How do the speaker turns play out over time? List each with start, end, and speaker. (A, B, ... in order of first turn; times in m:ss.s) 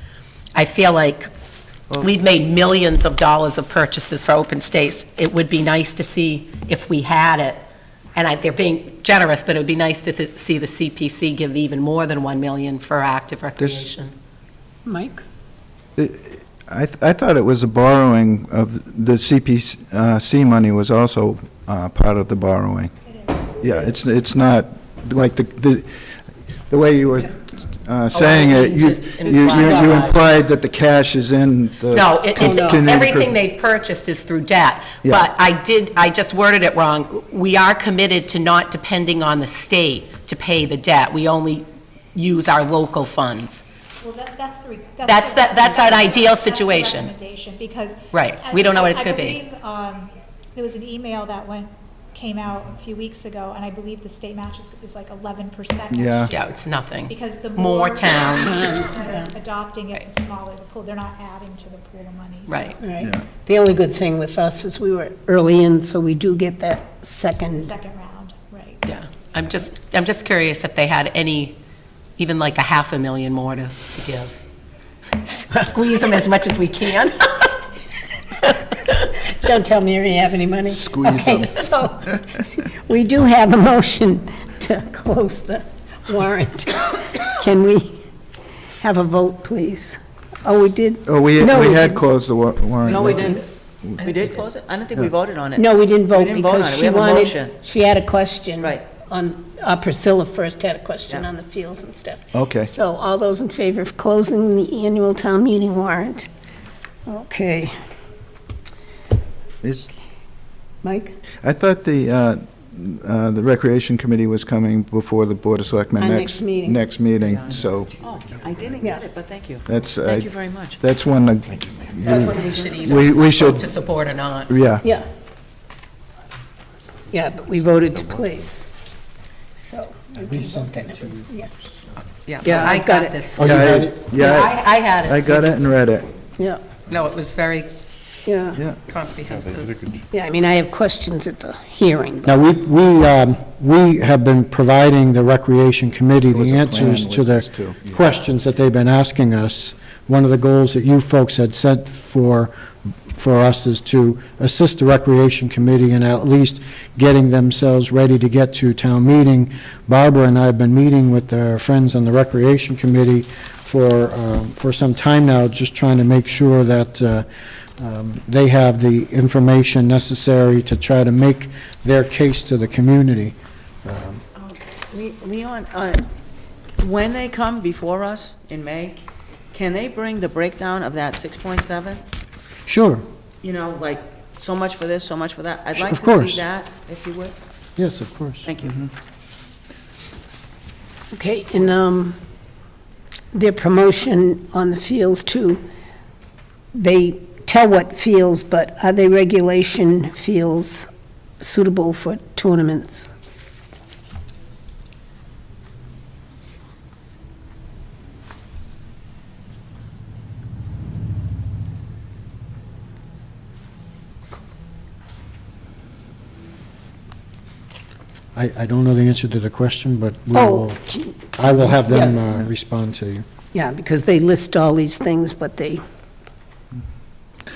0:00.5-0:01.3 A
0:02.0-0:07.6 A
0:08.1-0:14.1 A
0:13.6-0:13.8 B
0:14.8-0:15.2 C
0:16.0-0:22.9 B
0:23.0-0:23.7 D
0:23.6-0:25.9 B
0:26.7-0:33.4 B
0:28.1-0:30.4 A
0:31.9-0:43.6 A
0:32.4-0:32.8 C
0:44.0-1:02.9 D
0:45.0-0:47.1 A
0:48.1-0:49.4 A
0:55.9-0:56.3 B
0:56.3-0:58.8 A
0:58.4-0:59.3 C
1:02.5-1:02.8 A
1:02.8-1:07.7 C
1:03.0-1:03.2 B
1:07.5-1:08.8 D
1:08.8-1:11.6 A
1:12.2-1:14.4 A
1:15.2-1:17.5 A
1:18.6-1:18.9 A
1:19.3-1:28.0 C
1:20.6-1:22.4 B
1:28.8-1:32.0 C
1:31.0-1:33.9 B
1:32.8-1:33.5 E
1:34.0-1:37.6 E
1:34.0-1:34.3 A
1:35.5-1:46.3 C
1:38.6-1:38.8 E
1:42.3-1:42.7 B
1:47.0-1:47.7 C
1:49.6-1:49.9 B
1:50.8-1:51.1 C
1:51.4-1:58.0 B
1:55.9-1:56.8 C
1:57.2-2:00.8 E
1:59.6-2:03.7 B
2:02.0-2:03.0 E
2:02.1-2:04.6 A
2:04.5-2:04.8 B
2:04.8-2:05.1 C
2:07.1-2:08.7 C
2:09.6-2:11.5 C
2:10.2-2:11.3 F
2:12.2-2:15.6 A
2:12.4-2:13.3 C
2:13.4-2:13.9 F
2:13.4-2:16.1 B
2:16.4-2:16.8 C
2:16.8-2:17.7 A
2:18.2-2:18.6 C
2:18.8-2:19.8 A
2:20.0-2:22.4 C
2:22.2-2:32.5 F
2:26.3-2:27.9 B
2:33.0-2:47.2 F
2:47.8-2:54.2 F
2:54.9-2:56.1 E
2:56.8-2:59.0 E
2:59.5-3:02.0 E
3:02.7-3:03.0 F
3:03.4-3:07.3 E
3:05.8-3:06.4 F
3:07.8-3:08.5 F
3:08.4-3:08.8 E
3:11.1-3:12.2 C
3:13.3-3:15.6 C
3:16.7-3:20.9 C
3:21.4-3:23.1 C
3:38.3-3:43.2 F
3:40.3-3:42.2 C
3:43.5-3:45.8 C